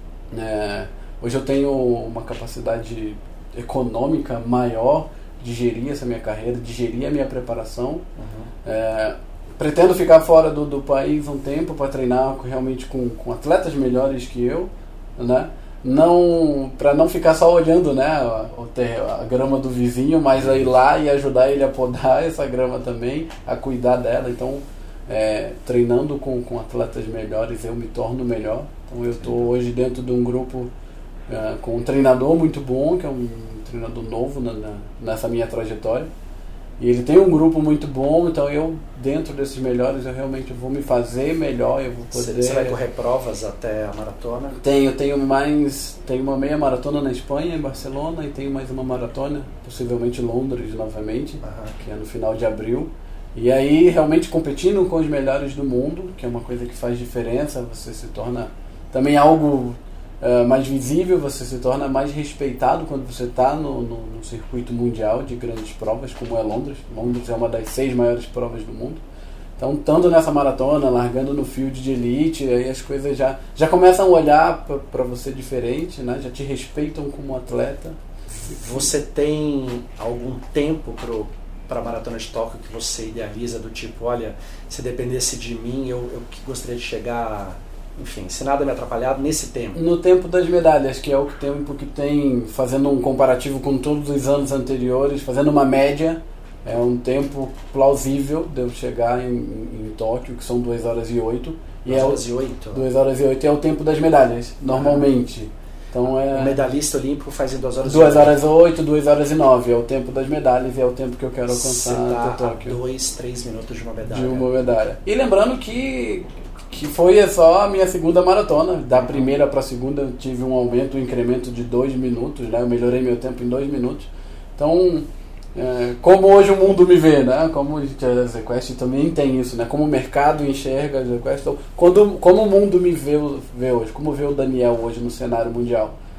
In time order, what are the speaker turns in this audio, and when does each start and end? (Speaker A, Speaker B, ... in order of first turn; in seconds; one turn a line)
Speaker A: 0.3-8.0
Speaker B: 8.2-8.5
Speaker A: 8.6-30.7
Speaker A: 31.3-36.1
Speaker A: 36.8-42.8
Speaker B: 42.1-44.6
Speaker A: 44.5-69.0
Speaker B: 51.4-51.7
Speaker A: 69.6-78.6
Speaker B: 78.5-89.8
Speaker A: 89.7-106.6
Speaker B: 101.9-102.8
Speaker B: 104.7-105.1
Speaker B: 106.3-108.3
Speaker A: 107.9-112.8
Speaker B: 111.5-114.5
Speaker A: 114.1-135.9
Speaker B: 119.0-119.3